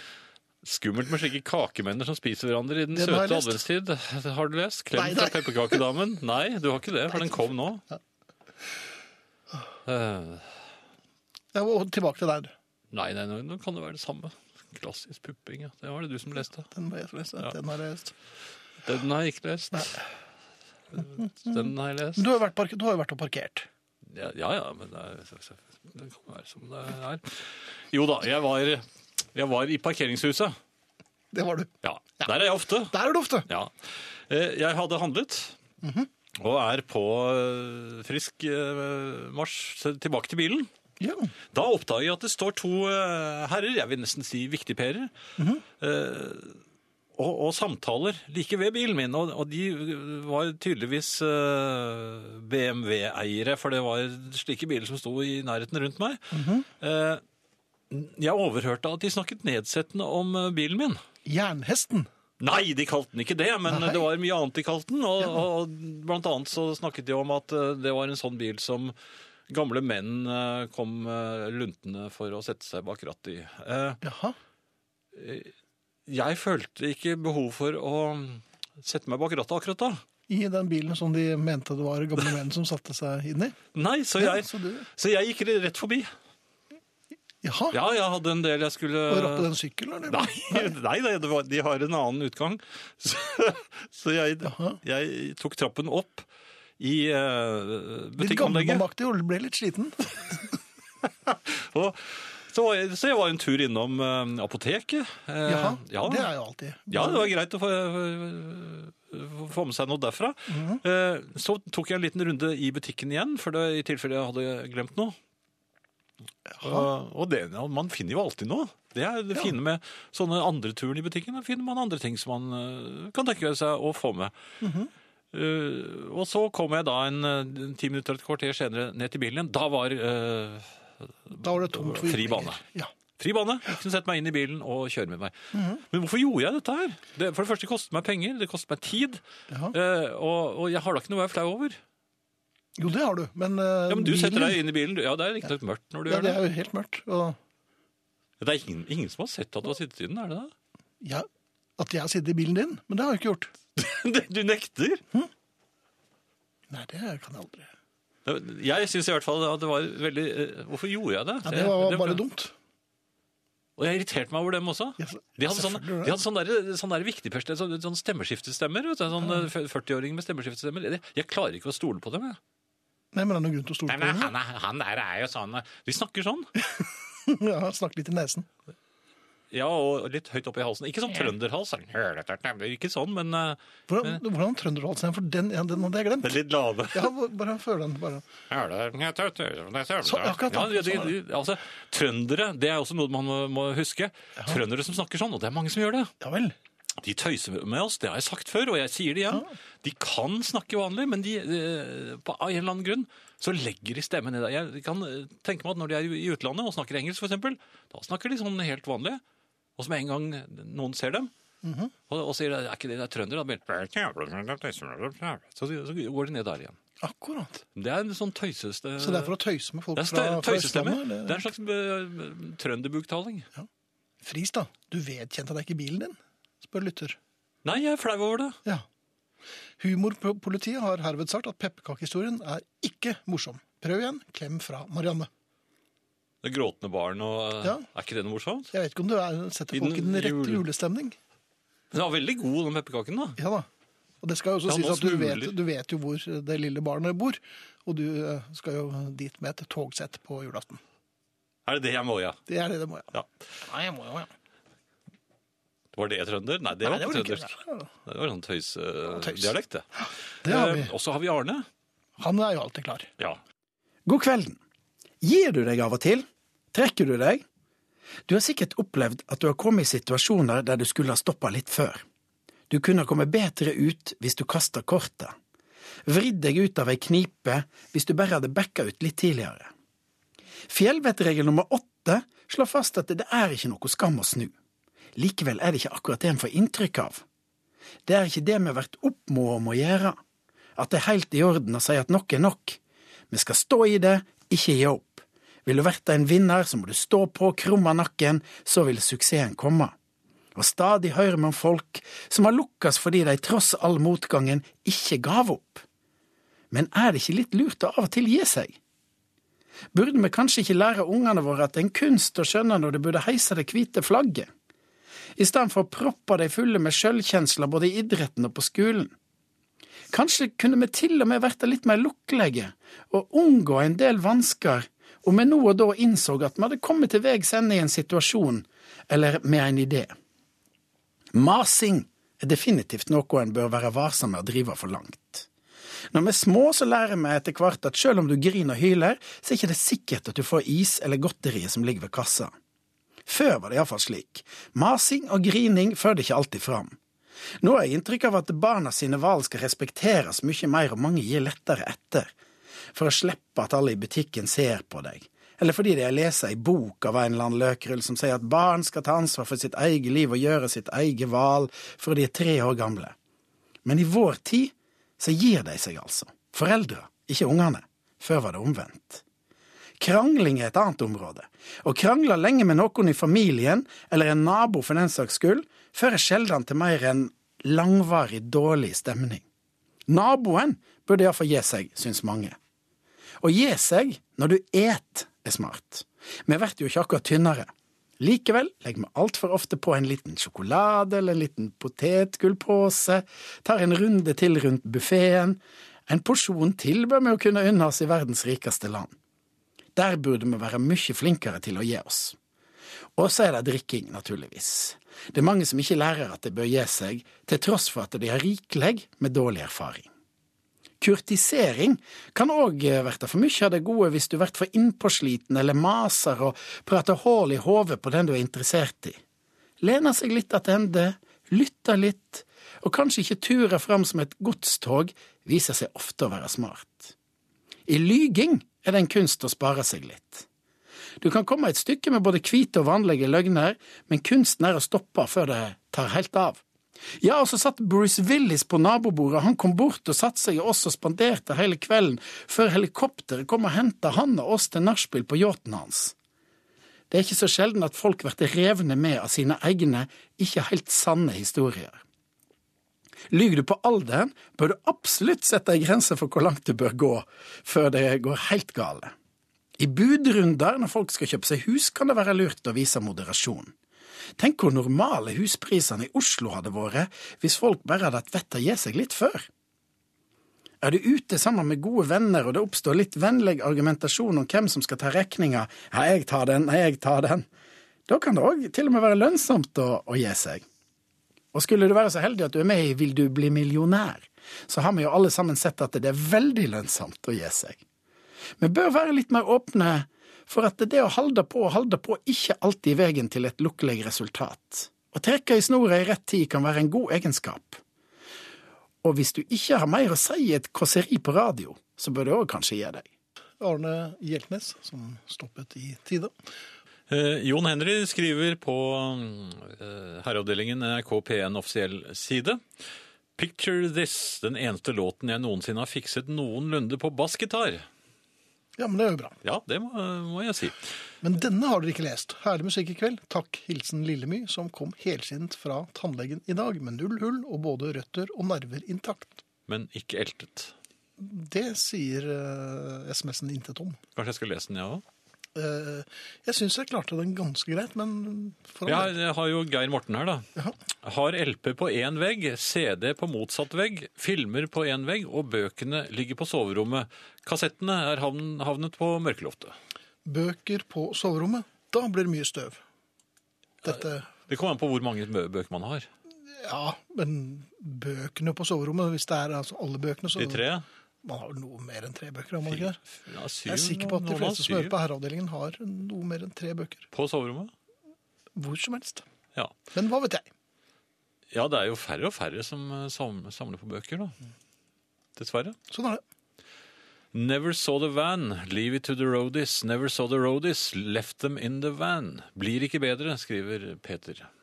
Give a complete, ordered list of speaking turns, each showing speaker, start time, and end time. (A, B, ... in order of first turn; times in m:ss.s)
0:00.6-0:07.8 A
0:02.9-0:03.6 B
0:05.0-0:05.5 B
0:09.8-0:10.5 A
0:11.5-0:12.5 B
0:12.9-0:16.7 A
0:16.7-0:18.1 B
0:18.8-0:20.0 A
0:20.9-0:22.2 A
0:22.2-0:23.7 B
0:24.0-0:30.6 A
0:31.3-0:32.3 B
0:31.8-0:32.9 A
0:32.9-0:33.5 B
0:33.4-0:35.6 A
0:35.8-0:36.1 B
0:36.3-0:40.7 A
0:41.0-0:41.3 B
0:41.5-0:45.1 A
0:45.4-0:45.6 B
0:45.7-0:46.6 A
0:47.2-0:57.2 A
0:56.3-0:56.7 B
0:57.9-1:01.0 A
1:01.2-1:02.1 B
1:02.4-1:08.9 A
1:03.7-1:04.0 B
1:09.5-1:14.0 A
1:14.0-1:14.4 B
1:15.1-1:15.5 A
1:16.1-1:20.0 A
1:20.3-1:23.6 B
1:23.7-1:26.1 A
1:24.2-1:24.9 B
1:27.4-1:27.8 B
1:27.7-1:29.5 A
1:29.1-1:30.7 B
1:30.0-1:36.3 A
1:34.4-1:34.8 B
1:36.8-1:38.8 A
1:38.2-1:40.4 B
1:41.2-1:46.3 A
1:45.4-1:47.3 B
1:46.9-1:55.2 A
1:50.5-1:50.8 B
1:56.5-1:56.9 B
1:56.6-2:04.3 A
2:04.6-2:04.9 B
2:05.3-2:12.6 A
2:11.4-2:12.9 B
2:13.2-2:21.8 A
2:15.5-2:15.8 B
2:19.5-2:19.7 B
2:22.8-2:24.6 B
2:23.9-2:26.4 A
2:26.1-2:27.4 B
2:28.4-2:30.5 A
2:31.0-2:31.3 B
2:31.8-2:33.5 B
2:33.8-2:35.0 A
2:36.7-2:37.7 B
2:38.2-2:42.2 A
2:41.4-2:42.5 B
2:43.8-2:52.4 A
2:45.0-2:46.2 B
2:53.1-2:54.3 B
2:53.9-2:56.5 A
2:56.6-2:58.5 B
2:59.5-3:04.2 A
3:03.9-3:06.4 B
3:06.2-3:07.1 A
3:06.9-3:08.2 B
3:08.5-3:16.1 A
3:10.0-3:11.1 B
3:16.2-3:16.5 B
3:17.0-3:29.2 A
3:29.8-3:31.3 A
3:31.6-3:31.9 B
3:32.1-3:36.8 A
3:37.0-3:37.6 B
3:37.7-3:39.4 A
3:39.0-3:41.4 B
3:40.0-3:43.5 A
3:44.2-3:47.2 B
3:47.6-3:48.6 A
3:49.8-3:55.3 B
3:56.4-3:58.7 A
3:58.7-4:01.2 B
3:59.7-4:00.6 A
4:01.9-4:03.4 A
4:03.4-4:03.7 B
4:04.2-4:10.8 B
4:04.7-4:05.5 A
4:11.6-4:12.4 A
4:12.5-4:14.3 B
4:15.9-4:19.8 A
4:16.8-4:17.9 B
4:19.1-4:20.9 B
4:20.4-4:21.6 A
4:22.2-4:23.1 B
4:24.0-4:24.6 C
4:25.2-4:27.4 C
4:28.3-4:32.0 C
4:32.7-4:35.3 C
4:36.0-4:39.7 C
4:40.7-4:44.5 C
4:45.2-4:47.2 C
4:48.0-4:50.2 C
4:50.8-4:52.8 C
4:53.3-4:59.9 C
5:00.6-5:05.8 C
5:06.7-5:08.7 C
5:09.9-5:14.5 C
5:15.4-5:19.1 C
5:20.1-5:30.1 C
5:31.3-5:35.5 C
5:36.1-5:42.5 C
5:43.2-5:47.0 C
5:47.6-5:52.3 C
5:52.9-6:03.1 C
6:03.8-6:09.2 C
6:10.0-6:19.4 C
6:20.1-6:22.6 C
6:23.4-6:39.1 C
6:40.0-6:42.4 C
6:43.2-6:50.1 C
6:51.0-6:59.2 C
6:59.8-7:07.1 C
7:07.9-7:10.4 C
7:11.2-7:16.6 C
7:17.2-7:26.1 C
7:27.1-7:32.0 C
7:33.3-7:39.1 C
7:39.8-7:43.7 C
7:44.4-7:49.5 C
7:50.8-7:57.4 C
7:58.1-8:00.6 C
8:01.5-8:07.8 C
8:08.6-8:17.8 C
8:19.0-8:23.0 C
8:23.6-8:26.3 B
8:27.1-8:32.6 A
8:33.4-8:37.8 A
8:38.8-8:39.4 B
8:39.4-8:40.8 A
8:41.2-8:49.4 B
8:49.7-8:50.7 A
8:51.2-8:54.0 B
8:54.2-8:55.0 A
8:55.5-8:59.1 B
8:58.8-9:00.5 A
9:01.0-9:09.7 A
9:10.2-9:12.8 B
9:13.8-9:14.3 B
9:13.9-9:16.1 A
9:16.5-9:20.6 B
9:20.4-9:20.8 A
9:21.2-9:23.0 B
9:22.6-9:24.9 A
9:23.7-9:27.1 B
9:27.1-9:27.7 A
9:28.6-9:29.2 B
9:29.9-9:30.5 B
9:31.5-9:34.4 A
9:35.4-9:35.8 A
9:35.9-9:36.2 B
9:37.3-9:44.5 A